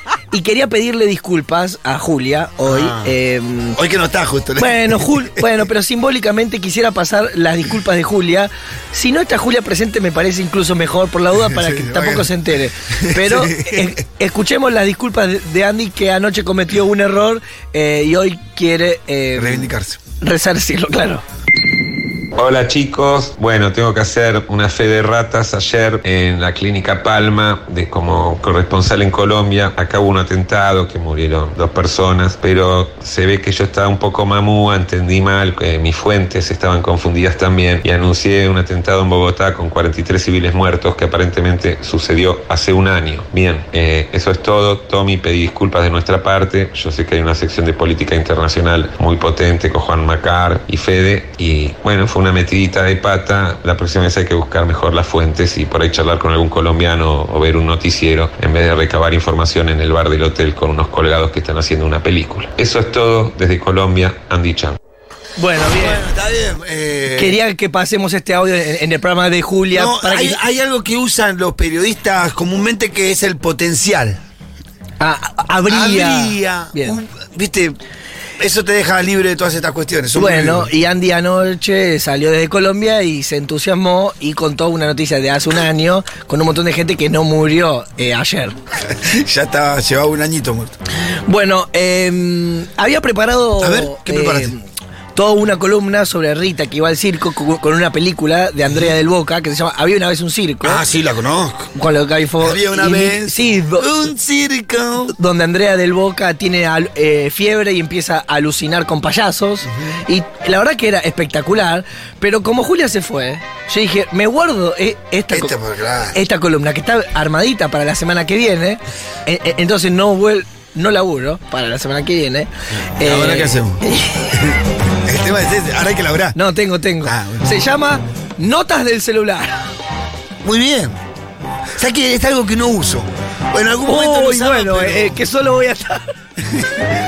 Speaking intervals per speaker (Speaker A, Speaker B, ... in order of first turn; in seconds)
Speaker A: 0.3-3.8, 4.6-21.2, 65.4-66.0, 67.2-70.4, 75.0-77.0, 80.1-88.6, 91.2-94.6, 95.2-100.8, 101.8-104.0, 105.1-115.5, 116.1-124.3, 126.3-129.6, 133.8-136.1
Speaker B: 2.6-3.1, 3.8-5.4, 11.3-12.4, 12.9-13.9, 19.4-20.0, 65.7-67.4, 69.7-74.2, 75.7-77.8, 78.4-80.7, 88.9-90.7, 93.6-94.5, 100.6-101.7, 102.4-105.2, 109.7-110.0, 115.3-116.2, 123.0-126.4, 127.0-127.5, 130.4-131.0, 131.8-135.2
Speaker C: 22.4-64.8